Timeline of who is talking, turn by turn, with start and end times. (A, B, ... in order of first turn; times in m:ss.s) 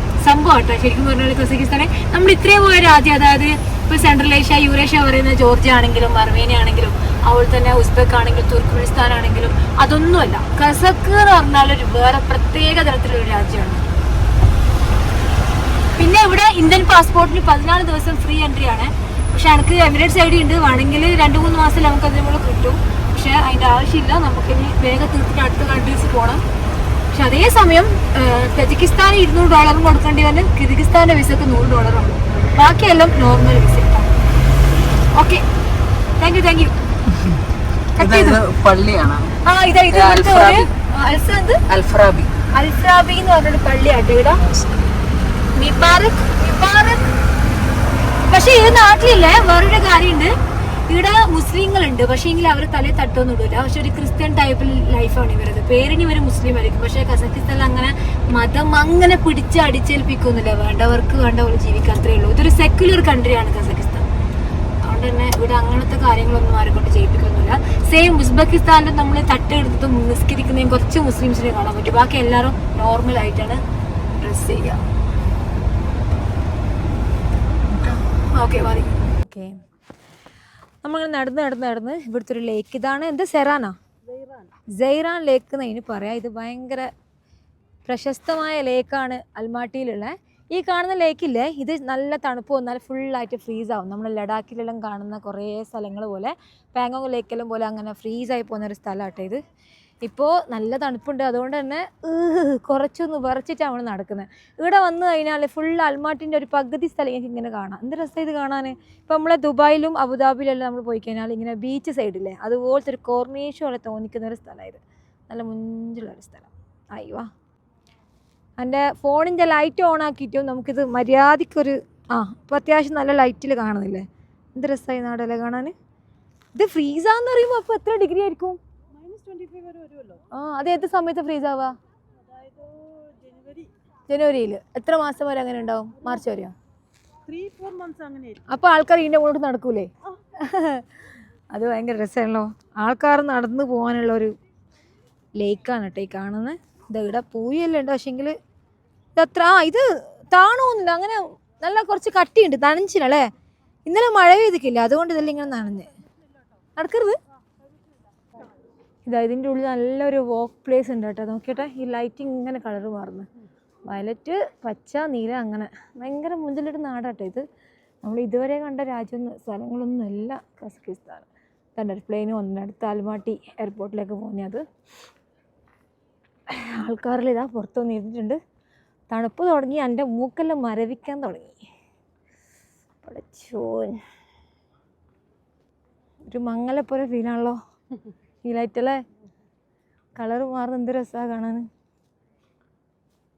0:00.2-0:13.8 A
0:16.0-0:26.4 A
0:27.1-0:34.1 A
0:35.1-0:35.4 A
0:36.2-0:36.7 A
0:38.0-0:38.4 A
0:38.0-0:39.3 B
0:39.4-0:41.6 A
0:39.9-0:40.5 B
0:41.7-0:42.3 B
0:42.5-0:44.4 A
0:45.5-0:47.1 A
0:48.3-0:50.4 A
0:50.9-1:04.1 A
1:04.8-1:14.8 A
1:17.7-1:19.6 A
1:20.8-1:23.8 A
1:24.0-1:24.5 B
1:24.8-1:26.9 A
1:27.9-1:39.4 A
1:40.0-1:57.3 A
1:58.6-2:05.7 A
2:06.6-2:08.6 A
2:09.0-2:10.2 B
2:10.3-2:11.8 A
2:12.3-2:13.7 B
2:14.1-2:16.5 A
2:17.3-2:18.4 B
2:18.5-2:20.8 A
2:21.5-2:24.4 A
2:25.4-2:28.4 A
2:29.2-2:33.3 A
2:33.9-2:35.9 A
2:36.8-2:37.2 A
2:39.1-2:43.3 A
2:43.9-2:47.4 A
2:48.0-2:54.6 A
2:56.5-2:58.4 A
2:59.1-3:01.6 A
3:03.0-3:04.0 A
3:06.3-3:07.6 A
3:08.4-3:09.0 A
3:10.2-3:11.7 A